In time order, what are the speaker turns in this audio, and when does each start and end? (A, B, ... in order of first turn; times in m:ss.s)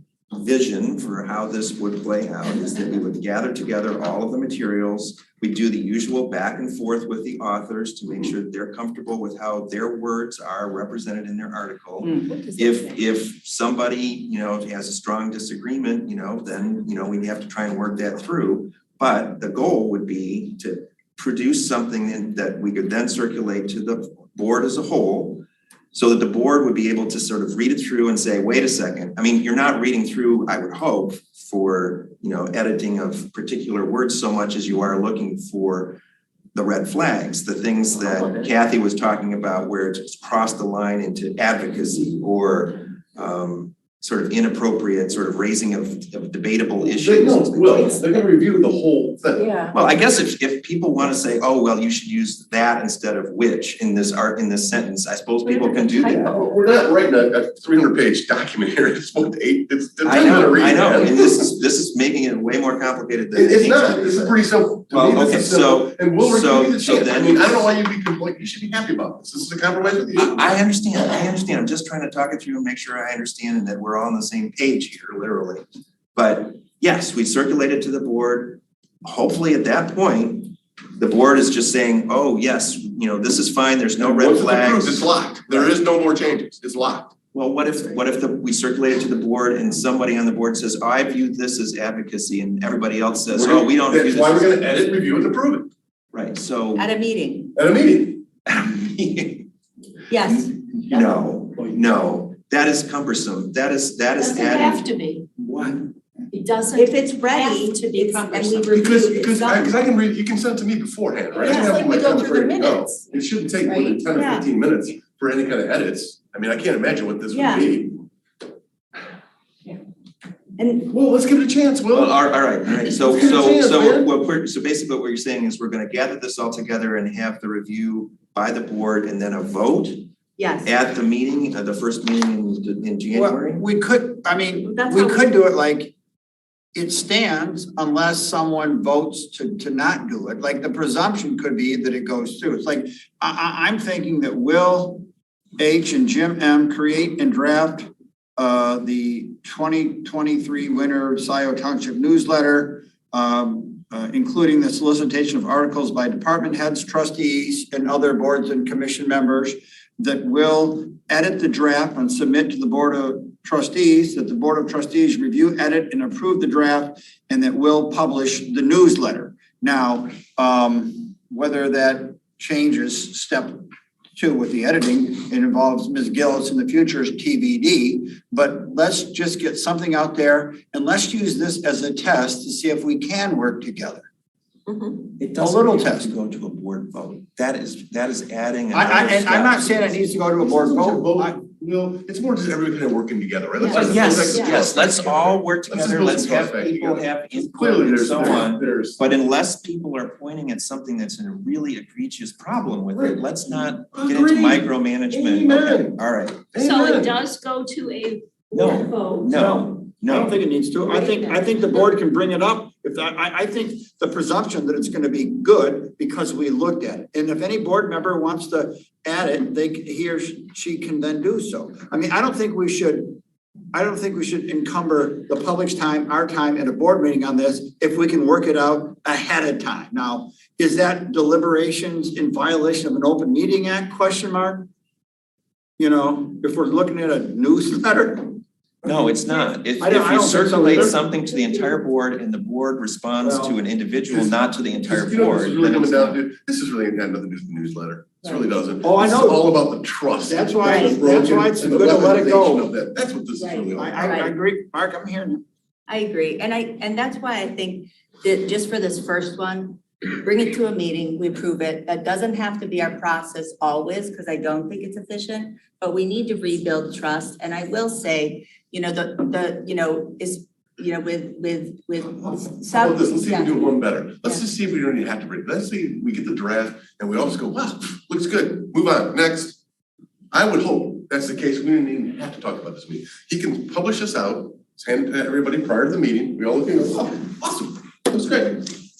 0:00.3-0:36.0 A
0:36.5-0:48.1 A
0:46.9-0:49.6 B
0:49.7-0:56.4 A
0:56.0-0:56.3 C
0:56.3-1:01.5 B
1:00.0-1:07.6 A
1:03.3-1:10.4 B
1:10.1-1:15.6 A
1:16.1-1:24.9 A
1:24.0-1:27.1 B
1:27.3-1:34.6 A
1:33.3-1:35.7 B
1:36.1-1:36.9 A
1:36.8-1:37.5 D
1:37.5-1:38.2 B
1:38.4-1:39.5 A
1:40.1-1:41.1 D
1:40.2-1:45.9 A
1:44.2-1:45.2 C
1:46.3-1:49.1 C
1:46.7-1:49.8 D
1:48.7-1:58.0 B
1:51.3-1:53.0 C
1:51.4-1:51.7 D
1:53.7-1:54.4 D
1:57.3-1:57.7 D
2:00.6-2:00.9 D
2:00.9-2:02.2 B
2:01.9-2:10.0 A
2:02.9-2:04.1 B
2:10.4-2:10.7 D
2:10.6-2:13.6 A
2:13.1-2:15.9 E
2:14.8-2:15.2 C
2:16.7-2:25.0 E
2:25.6-3:04.0 E
3:04.7-3:04.9 C
3:05.0-3:10.0 A
3:05.4-3:06.1 E
3:08.7-3:11.4 E
3:10.4-3:19.0 B
3:13.6-3:14.6 D
3:13.7-3:26.4 A
3:22.9-3:23.2 B
3:23.9-3:26.0 B
3:26.5-3:27.2 B
3:26.6-3:29.3 C
3:28.5-3:30.4 A
3:29.2-3:43.2 E
3:31.0-3:31.4 C
3:43.7-3:54.7 E
3:55.8-3:58.4 E
3:58.8-4:06.2 A
3:59.8-4:01.0 E
4:03.2-4:03.6 E
4:04.8-4:14.2 B
4:08.8-4:09.5 E
4:10.2-4:12.7 E
4:10.6-4:11.0 D
4:13.4-4:14.3 D
4:13.8-4:15.4 E
4:15.9-4:33.7 D
4:32.4-4:39.6 B
4:40.3-4:48.7 B